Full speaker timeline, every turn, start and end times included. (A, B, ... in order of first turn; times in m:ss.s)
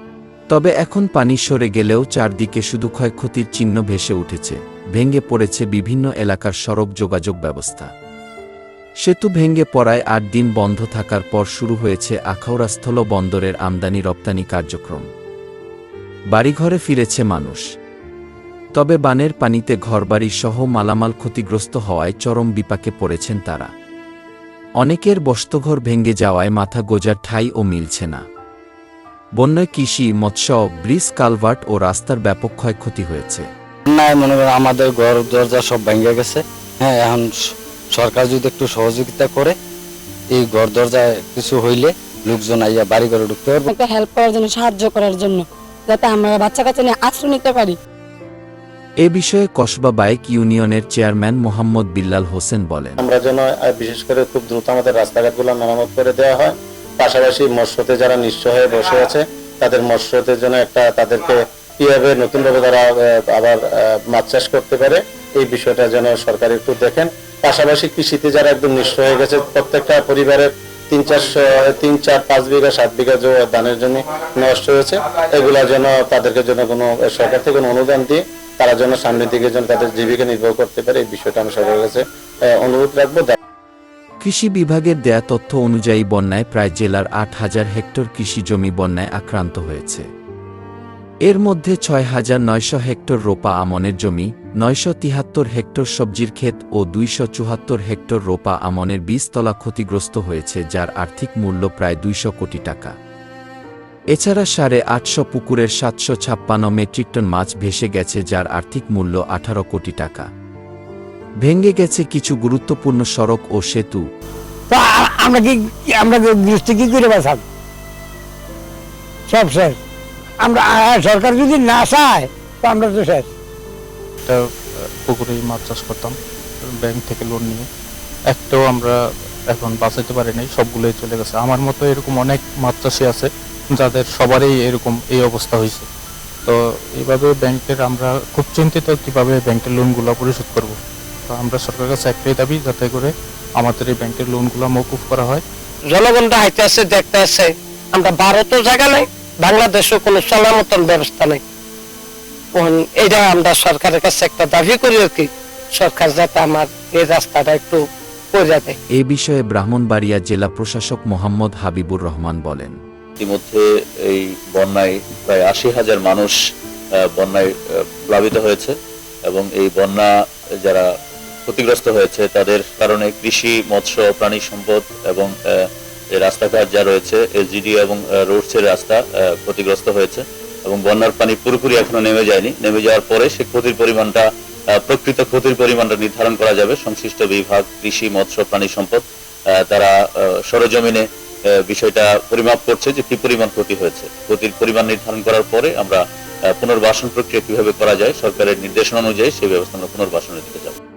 0:00.5-0:07.9 A
0:09.0-0:15.1 A
0:16.3-0:17.6 A
0:18.8-0:23.7 A
0:24.8-0:28.2 A
0:29.4-0:33.5 A
0:33.9-0:37.3 B
0:38.0-0:39.5 B
0:40.4-0:43.7 B
0:43.8-0:47.8 C
0:49.0-0:53.0 A
0:53.0-1:23.4 D
1:24.2-1:30.1 A
1:31.3-1:43.0 A
1:44.1-1:50.3 A
1:51.4-1:54.0 A
1:54.7-1:57.4 E
1:59.3-1:59.8 E
2:00.4-2:03.3 E
2:05.0-2:07.6 F
2:08.3-2:09.0 F
2:09.5-2:15.9 F
2:16.5-2:20.8 F
2:21.3-2:25.4 F
2:25.9-2:31.4 G
2:32.5-2:38.8 G
2:38.9-2:42.8 A
2:43.2-2:46.4 H
2:47.1-2:48.7 H
2:49.3-2:50.1 H
2:51.5-3:04.2 H
3:04.8-3:09.0 H
3:09.6-3:11.0 H
3:11.7-3:16.0 H
3:16.5-3:20.8 H